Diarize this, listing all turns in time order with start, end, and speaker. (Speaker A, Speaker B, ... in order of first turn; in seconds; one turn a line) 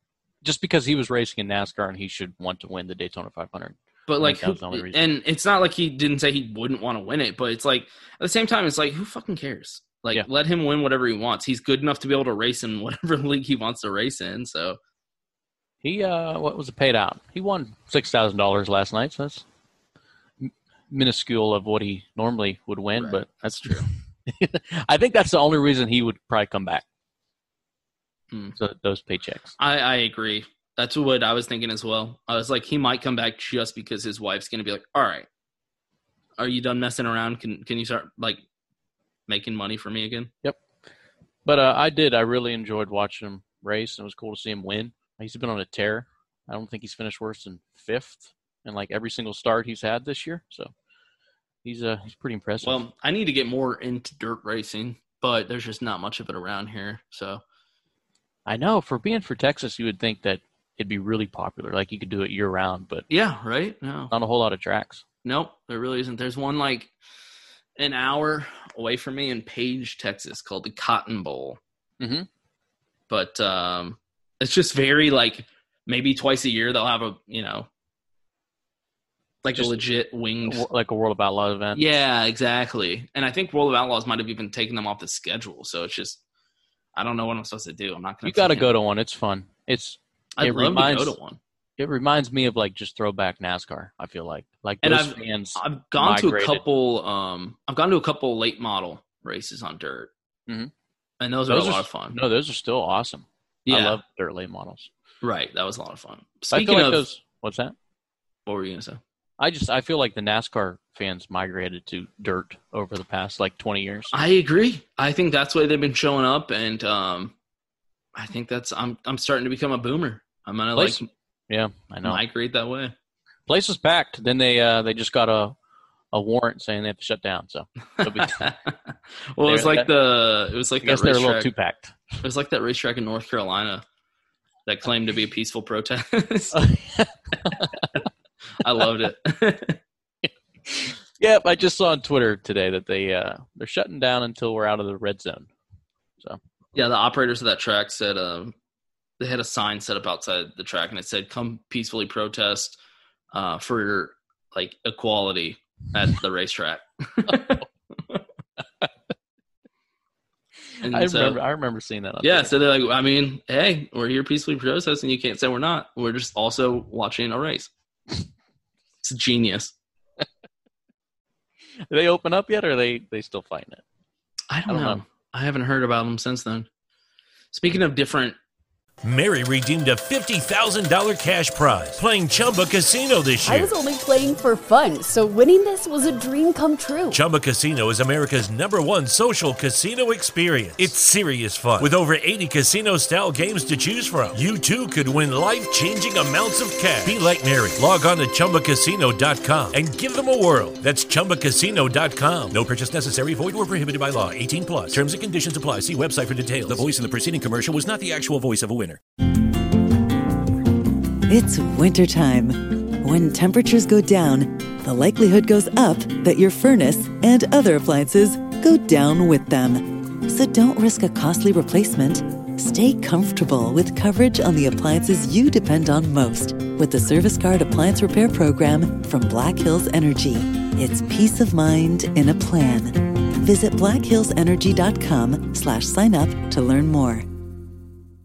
Speaker A: 0.4-5.0
Speaker B: 4.1-14.8
Speaker A: 15.8-19.4
Speaker A: 20.4-26.8
Speaker B: 23.0-23.9
Speaker B: 28.3-28.6
Speaker A: 28.6-29.6
Speaker B: 29.6-35.3
Speaker B: 36.4-38.4
Speaker B: 39.3-40.3
Speaker A: 41.5-50.7
Speaker A: 51.6-52.8
Speaker B: 52.6-57.4
Speaker A: 58.5-63.1
Speaker B: 63.1-64.1
Speaker A: 64.1-65.0
Speaker B: 65.2-66.9
Speaker B: 67.8-71.6
Speaker A: 72.0-72.3
Speaker B: 73.1-77.7
Speaker B: 79.4-80.7
Speaker A: 79.5-79.8
Speaker A: 80.5-81.8
Speaker B: 81.8-86.2
Speaker B: 87.0-88.7
Speaker A: 88.2-91.2
Speaker B: 90.4-91.4
Speaker A: 91.8-96.6
Speaker B: 94.8-100.1
Speaker B: 101.2-102.2
Speaker A: 101.5-104.9
Speaker B: 103.7-104.0
Speaker B: 105.2-107.0
Speaker A: 106.5-107.8
Speaker B: 108.5-109.0
Speaker A: 109.4-114.2
Speaker B: 114.1-117.3
Speaker B: 118.2-121.1
Speaker A: 120.8-122.2
Speaker B: 122.0-122.9
Speaker A: 123.5-125.5
Speaker A: 126.1-128.4
Speaker B: 128.0-128.7
Speaker B: 129.3-131.5
Speaker A: 129.4-129.9
Speaker A: 130.8-131.9
Speaker B: 132.2-133.8
Speaker B: 134.7-136.6
Speaker A: 136.5-137.9
Speaker B: 138.6-139.8
Speaker A: 140.2-145.5
Speaker B: 146.8-148.5
Speaker B: 149.2-152.8
Speaker B: 153.3-157.6
Speaker B: 160.8-161.4
Speaker A: 160.9-162.5
Speaker B: 162.2-167.7
Speaker B: 169.0-169.7
Speaker A: 171.9-173.8
Speaker B: 174.5-176.7
Speaker A: 174.7-175.0
Speaker B: 177.5-178.4
Speaker C: 179.0-183.7
Speaker D: 183.4-187.2
Speaker C: 187.1-209.0
Speaker E: 211.3-237.3